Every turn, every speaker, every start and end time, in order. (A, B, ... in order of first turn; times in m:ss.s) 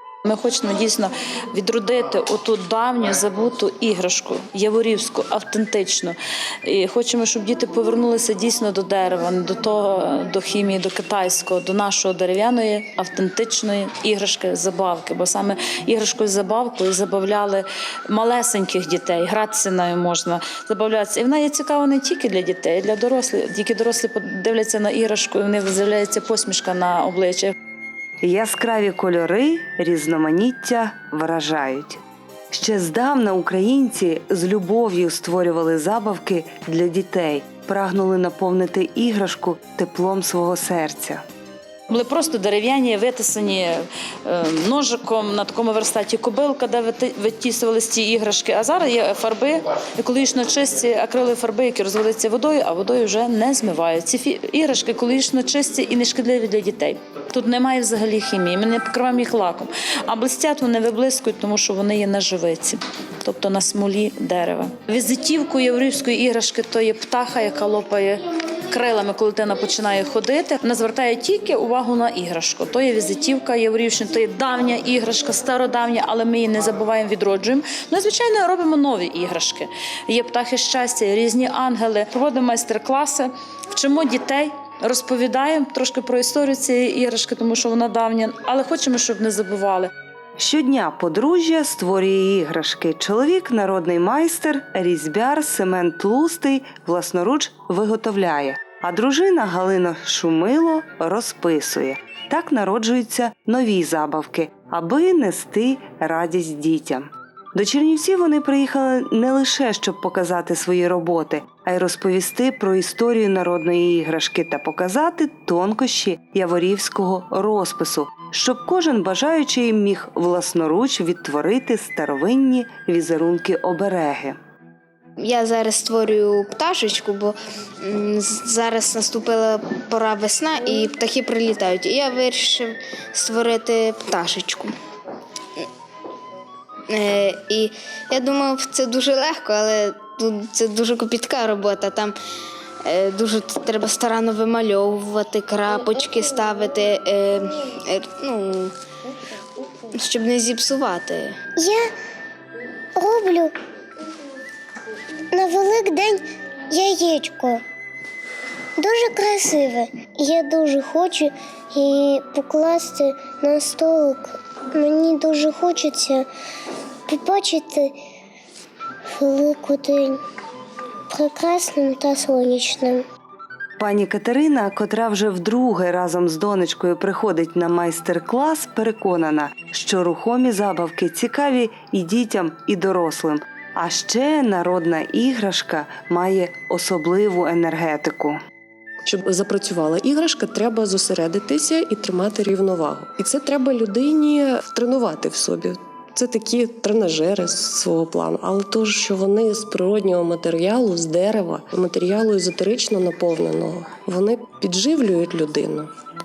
0:00.2-0:27.5 A
0:28.2-0:41.2 B
0:41.9-1:29.9 A
1:30.4-2:04.4 B
2:05.2-2:07.3 C
2:07.8-2:14.7 C
2:16.9-2:22.2 C
2:22.9-2:28.7 C
2:29.9-2:31.3 C
2:31.6-2:31.9 D
2:33.0-2:33.5 D
2:35.3-2:37.6 D
2:38.8-2:46.3 D
2:47.1-2:48.0 D
2:49.2-2:50.2 D
2:51.1-2:53.0 D
2:53.8-3:08.4 B
3:09.0-3:25.9 E